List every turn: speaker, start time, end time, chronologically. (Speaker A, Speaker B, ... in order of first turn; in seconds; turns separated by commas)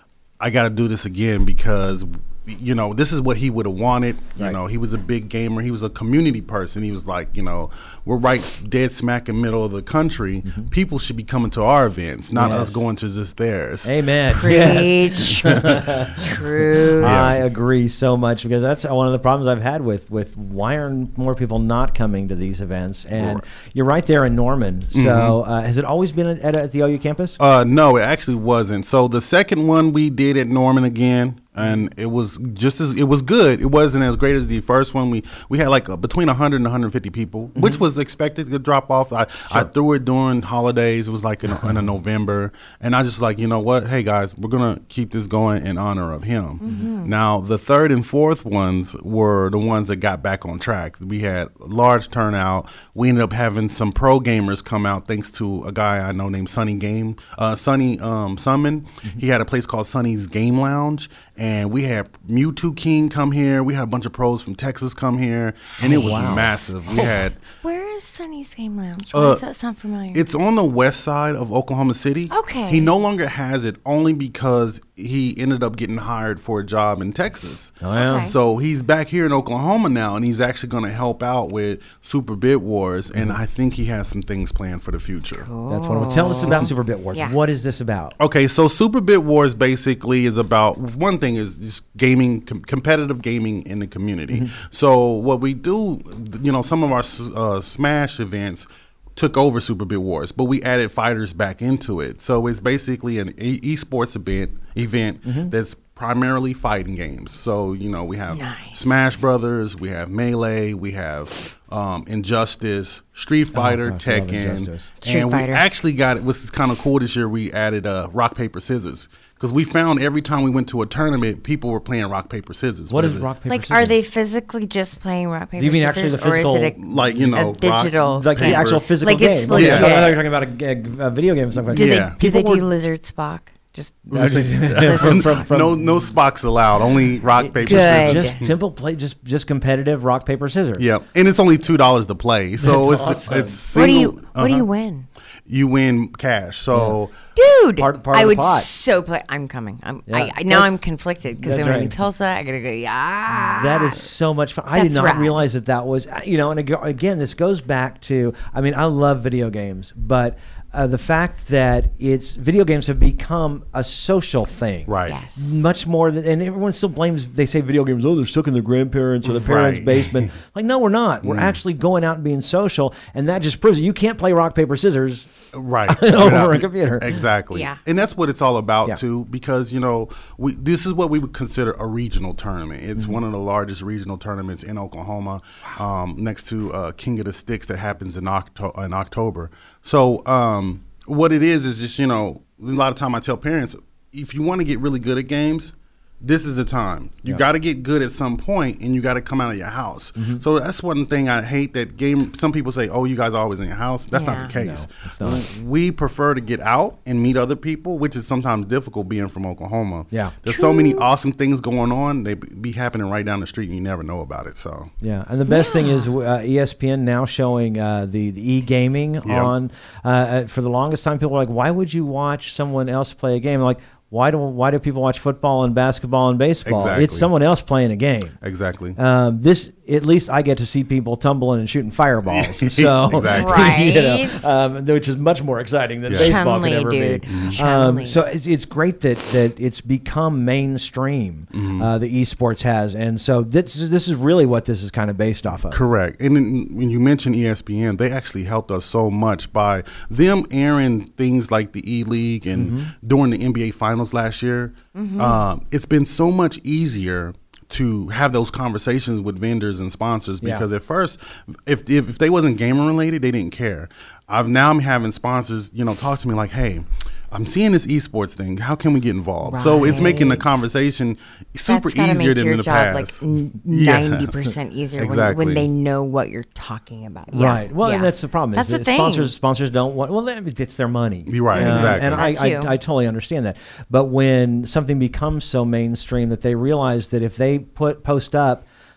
Speaker A: 0.4-14.0, Speaker B: 10.4-10.7, Speaker B: 12.3-12.8, Speaker B: 13.8-27.4, Speaker C: 14.3-17.3, Speaker A: 15.4-15.8, Speaker A: 17.0-17.4, Speaker A: 23.2-23.4, Speaker A: 24.9-25.4, Speaker A: 27.4-67.4, Speaker B: 37.5-37.8, Speaker B: 41.5-41.8, Speaker C: 46.6-47.1, Speaker C: 65.8-70.2, Speaker B: 65.8-66.5, Speaker A: 69.1-69.4, Speaker A: 70.1-85.5, Speaker C: 72.3-72.9, Speaker B: 77.8-78.3, Speaker C: 78.0-78.3, Speaker C: 85.3-87.4, Speaker B: 85.7-88.2, Speaker A: 86.4-86.7, Speaker A: 88.2-123.3, Speaker B: 105.2-105.5, Speaker C: 108.3-109.2, Speaker B: 113.5-114.9, Speaker C: 115.0-115.7, Speaker B: 122.9-124.0, Speaker C: 123.5-130.2, Speaker B: 125.6-132.7, Speaker A: 126.8-128.9, Speaker A: 129.5-130.0, Speaker A: 131.7-132.2, Speaker C: 131.7-135.5, Speaker B: 134.1-136.1, Speaker A: 134.1-138.6, Speaker B: 137.4-140.9, Speaker C: 137.6-138.4, Speaker A: 140.8-144.7, Speaker B: 142.6-143.6, Speaker C: 143.7-145.1, Speaker A: 145.5-147.2, Speaker B: 146.7-147.0, Speaker C: 147.3-154.1, Speaker B: 147.8-148.7, Speaker B: 150.1-150.8, Speaker B: 151.4-151.9, Speaker B: 153.3-175.3, Speaker C: 154.7-155.4, Speaker A: 164.9-165.2, Speaker C: 165.1-165.6, Speaker A: 169.2-170.3, Speaker A: 171.2-171.6, Speaker A: 175.5-214.9, Speaker B: 175.9-177.2, Speaker C: 177.5-177.8, Speaker B: 200.2-200.4, Speaker C: 204.1-204.5, Speaker B: 204.5-205.5, Speaker B: 210.1-210.4, Speaker C: 210.5-211.1, Speaker B: 215.0-228.4, Speaker C: 215.5-216.1, Speaker A: 219.2-219.5, Speaker A: 226.7-227.3, Speaker A: 228.4-229.0, Speaker B: 229.0-245.8, Speaker A: 232.3-233.8, Speaker C: 233.2-234.5, Speaker A: 236.1-236.4, Speaker C: 236.2-238.2, Speaker A: 237.3-237.6, Speaker A: 241.5-241.9, Speaker A: 245.7-274.3, Speaker B: 252.6-252.9, Speaker C: 254.9-255.4, Speaker C: 269.4-270.6, Speaker C: 271.7-279.3, Speaker A: 275.0-275.7, Speaker B: 277.3-288.6, Speaker A: 281.3-282.3, Speaker C: 281.5-282.8